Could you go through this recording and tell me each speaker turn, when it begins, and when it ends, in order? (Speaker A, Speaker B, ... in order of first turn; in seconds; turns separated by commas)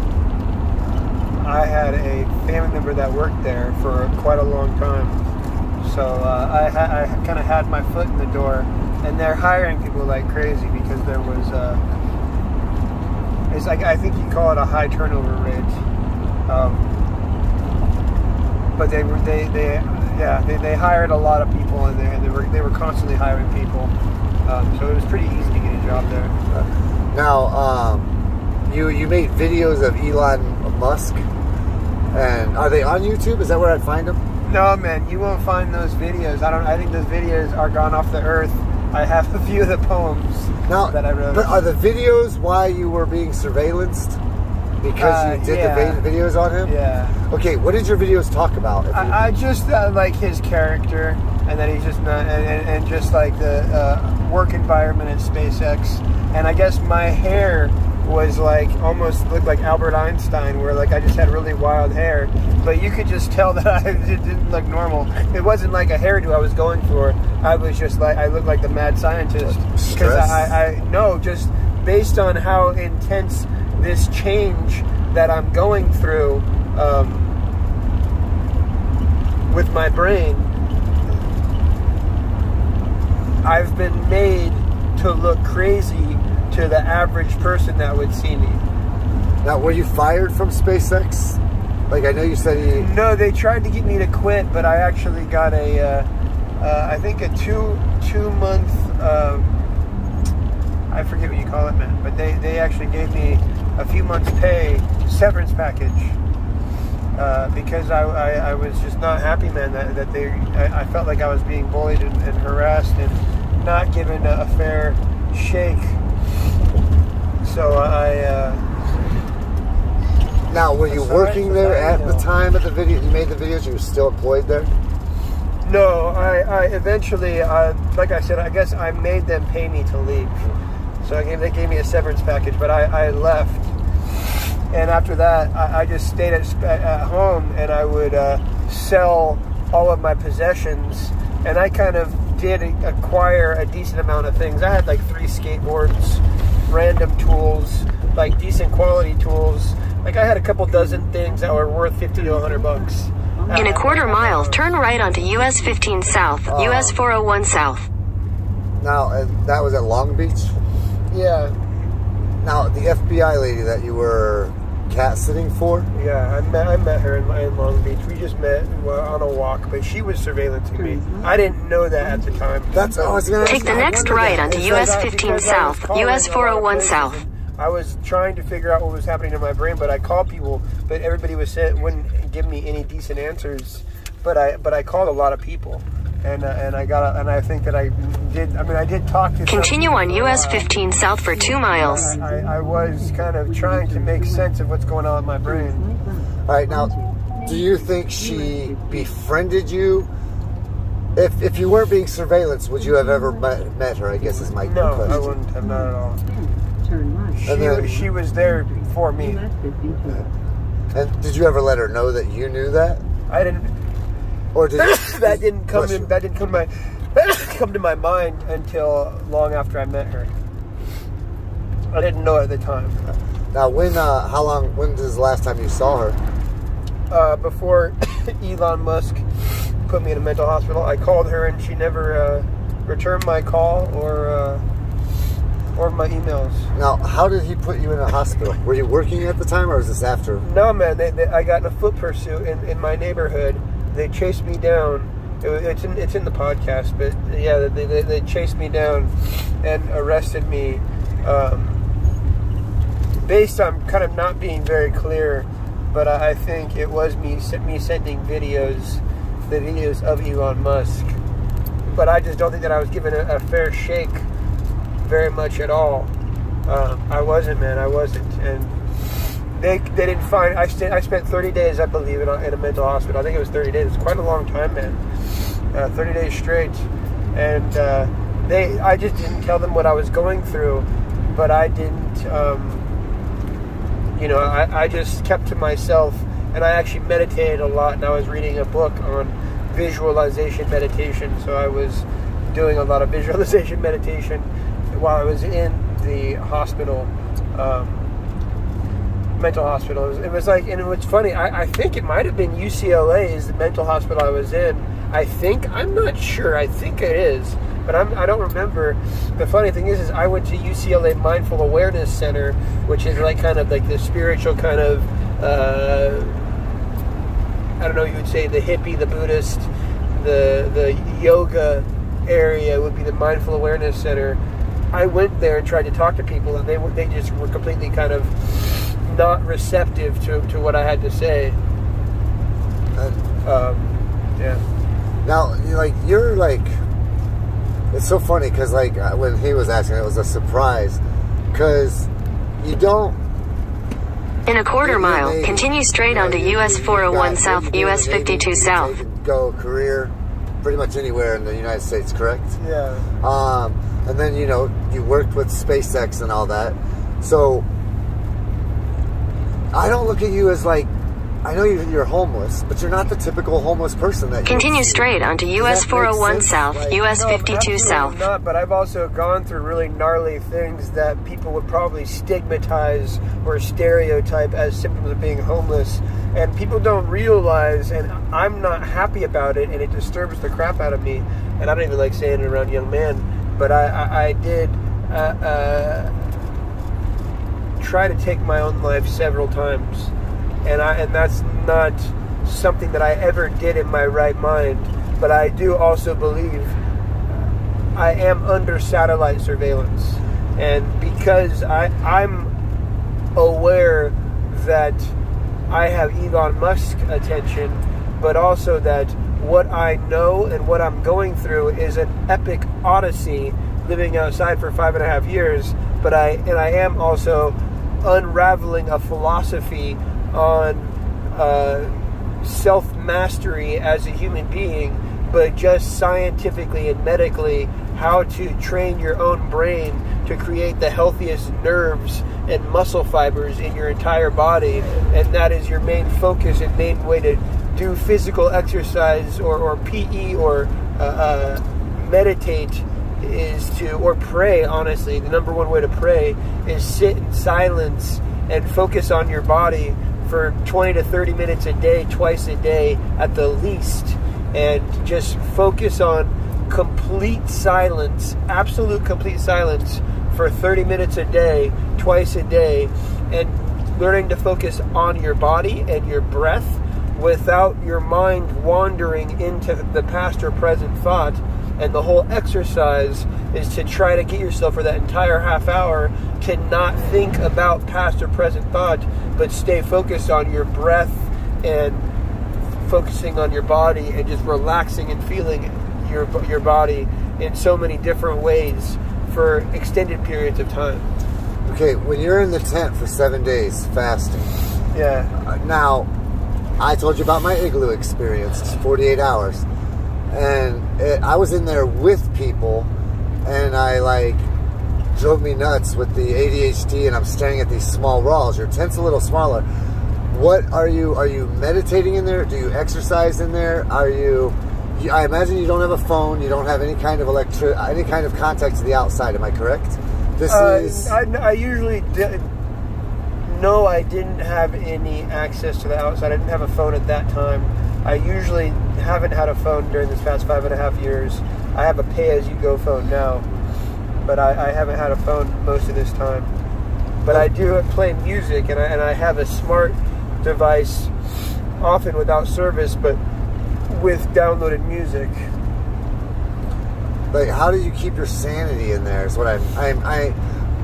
Speaker A: 1.3-5.2, Speaker A: 5.8-11.8, Speaker A: 13.5-15.8, Speaker A: 16.5-17.0, Speaker A: 18.8-23.9, Speaker A: 24.4-26.3, Speaker B: 26.5-28.1, Speaker B: 28.7-31.3, Speaker B: 32.1-34.2, Speaker A: 34.4-41.6, Speaker B: 40.7-44.2, Speaker B: 44.8-46.7, Speaker A: 45.0-46.0, Speaker A: 46.6-47.2, Speaker B: 47.3-49.2, Speaker A: 48.9-77.3, Speaker B: 69.4-70.5, Speaker A: 79.5-80.6, Speaker A: 83.4-88.6, Speaker B: 89.4-92.9, Speaker A: 92.8-96.1, Speaker A: 96.6-99.6, Speaker A: 100.9-106.2, Speaker A: 107.2-116.0, Speaker A: 117.4-118.6, Speaker B: 120.5-124.7, Speaker A: 120.9-122.3, Speaker A: 125.6-130.4, Speaker A: 131.0-133.7, Speaker A: 134.7-154.6, Speaker C: 150.7-156.2, Speaker D: 153.5-157.9, Speaker B: 156.5-157.0, Speaker B: 158.8-160.5, Speaker A: 161.1-161.6, Speaker B: 162.4-165.9, Speaker A: 165.9-190.7, Speaker C: 170.8-174.3, Speaker B: 172.7-175.0, Speaker D: 173.5-177.2, Speaker D: 189.5-192.2, Speaker C: 190.3-194.5, Speaker A: 191.8-195.9, Speaker C: 195.4-199.4, Speaker B: 196.5-196.9, Speaker B: 197.4-200.1, Speaker B: 201.2-205.3, Speaker C: 202.8-210.3, Speaker A: 204.6-206.2, Speaker A: 207.4-209.4, Speaker B: 207.5-207.9, Speaker B: 210.9-213.0, Speaker A: 213.3-213.8, Speaker B: 214.5-216.1, Speaker A: 214.8-220.3, Speaker A: 221.9-223.2, Speaker B: 223.5-226.2, Speaker A: 227.1-229.2, Speaker A: 229.8-234.6, Speaker A: 235.8-236.7, Speaker B: 236.8-240.4, Speaker A: 240.4-251.8, Speaker A: 253.2-261.2, Speaker A: 261.9-264.3, Speaker A: 265.0-266.1, Speaker A: 266.7-268.7, Speaker A: 269.6-275.0, Speaker A: 275.7-282.9, Speaker A: 284.1-298.1, Speaker A: 299.4-316.5, Speaker A: 317.8-324.4, Speaker A: 324.9-331.6, Speaker A: 333.4-334.6, Speaker B: 335.2-336.8, Speaker B: 337.9-341.0, Speaker B: 341.5-343.2, Speaker D: 344.5-348.9, Speaker B: 344.8-352.6, Speaker A: 352.6-353.1, Speaker B: 353.2-357.7, Speaker B: 359.7-360.9, Speaker B: 361.4-367.0, Speaker D: 364.5-368.2, Speaker A: 367.1-386.2, Speaker A: 387.8-390.1, Speaker A: 390.6-396.8, Speaker A: 397.9-402.5, Speaker A: 403.4-405.1, Speaker A: 405.7-482.1, Speaker A: 482.8-491.1, Speaker B: 491.7-494.5, Speaker A: 494.9-495.3, Speaker B: 495.4-496.1, Speaker B: 496.8-499.6, Speaker B: 500.3-502.9, Speaker B: 503.4-504.5, Speaker B: 505.1-509.6, Speaker B: 510.3-521.2, Speaker A: 520.5-522.5, Speaker A: 523.4-533.5, Speaker A: 534.2-536.5, Speaker A: 537.2-541.1, Speaker A: 541.8-543.2, Speaker A: 543.9-545.5, Speaker B: 547.3-550.4